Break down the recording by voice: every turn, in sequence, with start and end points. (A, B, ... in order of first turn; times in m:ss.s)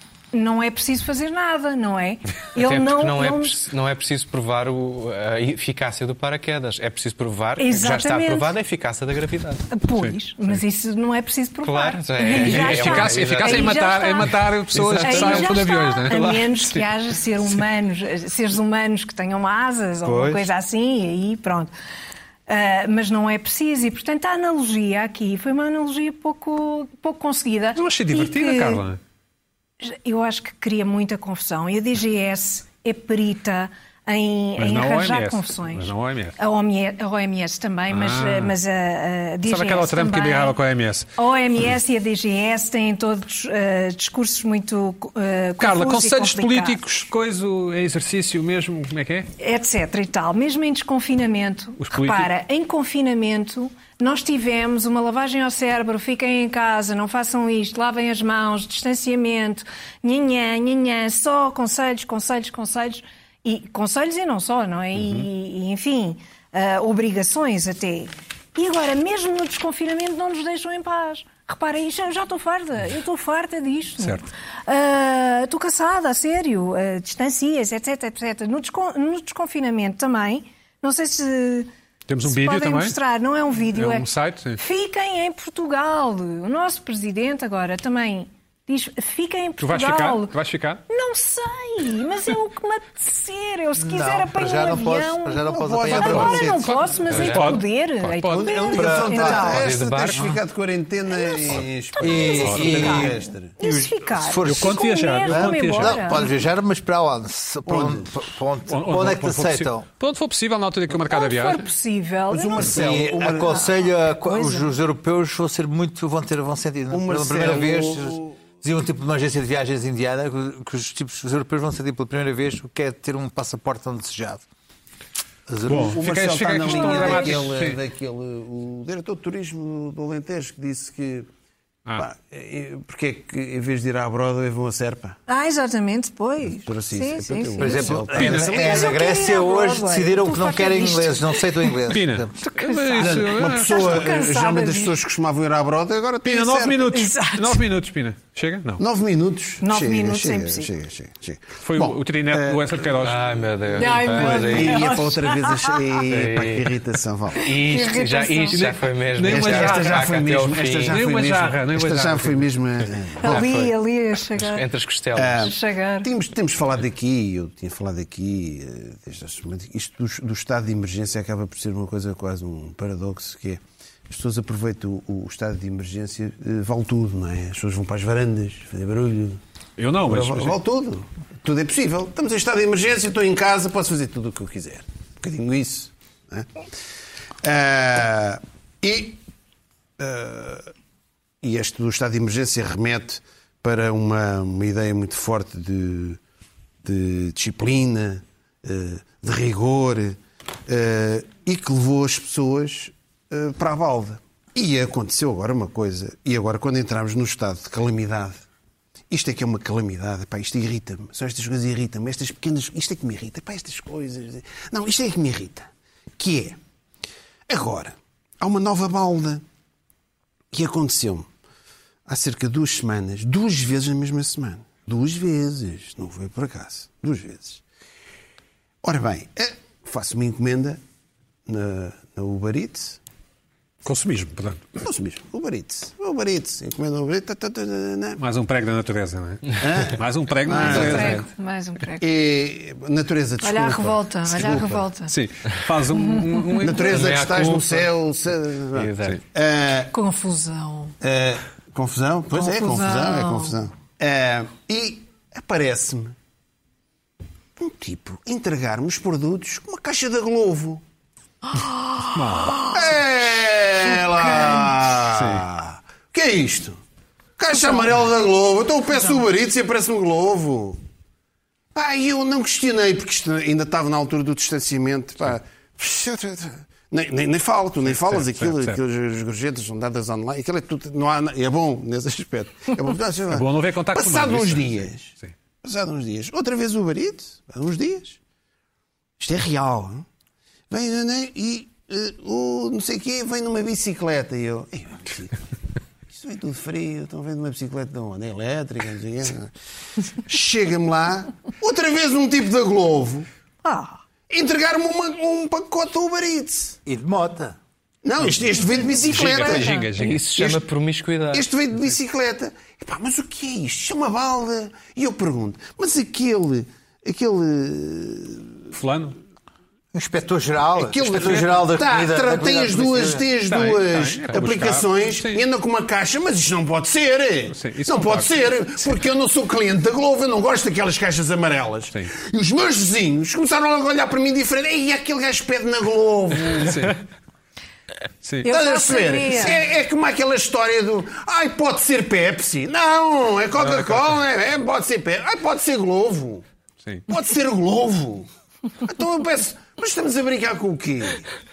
0:00.3-0:03.6 A
0:02.6-0:09.7 B
0:07.6-0:08.5 A
0:09.7-0:21.7 A
0:10.0-0:10.6 C
0:11.6-0:13.8 B
0:12.3-0:16.4 C
0:14.7-0:16.8 B
0:20.0-0:20.5 B
0:22.5-0:28.8 A
0:27.8-0:29.0 C
0:29.8-0:40.6 A
0:34.6-0:36.4 C
0:37.9-0:38.6 C
0:39.5-0:41.1 C
0:41.2-0:46.8 A
0:45.6-0:49.3 C
0:49.4-1:21.7 A
0:51.8-0:52.3 C
1:05.0-1:05.3 C
1:22.1-1:23.0 C
1:22.2-1:30.4 A
1:23.7-1:24.6 C
1:29.6-1:30.8 C
1:30.9-1:39.7 A
1:33.8-1:36.7 D
1:35.5-1:36.6 E
1:36.0-1:38.5 C
1:37.1-1:37.5 B
1:38.3-1:43.6 E
1:38.8-1:39.7 D
1:39.3-1:40.2 B
1:41.1-1:46.3 A
1:42.0-1:49.9 D
1:42.3-1:43.0 C
1:44.4-1:46.2 C
1:47.7-1:48.1 E
1:48.7-1:51.7 C
1:51.0-1:54.7 A
1:52.3-1:53.7 E
1:52.6-2:04.5 D
1:56.9-1:58.4 E
2:05.5-2:06.0 D
2:05.7-2:07.8 C
2:05.7-2:11.3 E
2:06.6-2:07.4 A
2:12.0-2:15.2 E
2:15.3-2:21.9 A
2:16.7-2:19.0 E
2:17.6-2:22.3 D
2:18.2-2:18.7 C
2:21.9-2:24.0 C
2:22.5-2:25.0 A
2:23.0-2:26.9 E
2:26.2-2:28.8 C
2:26.9-2:27.7 A
2:28.8-2:33.0 E
2:29.6-2:30.7 A
2:31.6-2:33.4 C
2:33.0-2:34.9 B
2:33.7-2:35.8 A
2:33.8-2:37.6 E
2:36.1-2:36.7 B
2:37.4-2:41.0 B
2:37.5-2:38.7 A
2:38.5-2:40.2 C
2:39.3-2:43.6 E
2:40.8-2:42.5 C
2:43.2-2:44.7 A
2:43.3-2:43.7 B
2:44.4-2:45.5 B
2:45.2-2:59.4 E
2:45.4-2:46.1 A
2:59.8-3:00.6 C
3:00.1-3:06.6 E
3:07.4-3:09.2 E
3:10.0-3:10.7 E
3:11.4-3:16.2 E
3:16.8-3:28.4 E
3:29.1-3:36.6 E
3:37.5-3:39.4 E
3:40.5-3:41.3 E
3:42.1-3:47.6 E
3:48.8-3:50.8 E
3:51.5-3:53.0 E
3:53.8-3:54.8 C
3:54.8-3:58.2 E
3:58.2-4:01.2 C
3:59.6-4:01.2 E
4:00.5-4:02.0 A
4:00.9-4:01.2 B
4:02.0-4:04.8 E
4:03.4-4:05.2 A
4:05.1-4:07.0 C
4:05.9-4:06.7 A
4:06.6-4:09.9 E
4:06.8-4:07.9 B
4:08.7-4:09.2 B
4:09.9-4:11.0 A
4:11.0-4:16.2 E
4:12.3-4:13.5 A
4:17.6-4:20.8 E
4:21.5-4:22.9 A
4:22.1-4:22.6 C
4:22.7-4:26.8 E
4:23.8-4:24.8 A
4:25.1-4:25.5 C
4:27.4-4:30.8 E
4:31.7-4:45.1 E
4:37.9-4:38.8 C
4:43.3-4:45.3 C
4:45.6-4:48.2 E
4:49.2-4:50.1 E
4:50.7-4:55.4 E
4:56.1-4:59.5 E
5:00.1-5:03.3 E
5:03.6-5:04.0 A
5:04.3-5:06.8 E
5:06.9-5:07.6 D
5:08.0-5:09.7 E
5:08.2-5:10.3 C
5:08.5-5:09.9 A
5:10.0-5:11.5 B
5:10.4-5:10.6 E
5:11.3-5:18.5 E
5:18.7-5:19.2 C
5:19.9-5:23.2 D
5:20.8-5:36.9 E
5:23.5-5:25.4 C
5:27.5-5:28.9 C
5:36.4-5:37.0 C
5:38.2-5:38.5 C
5:38.4-5:39.6 A
5:38.4-5:46.5 E
5:43.6-5:44.1 C
5:47.1-5:48.3 E
5:48.8-5:51.3 E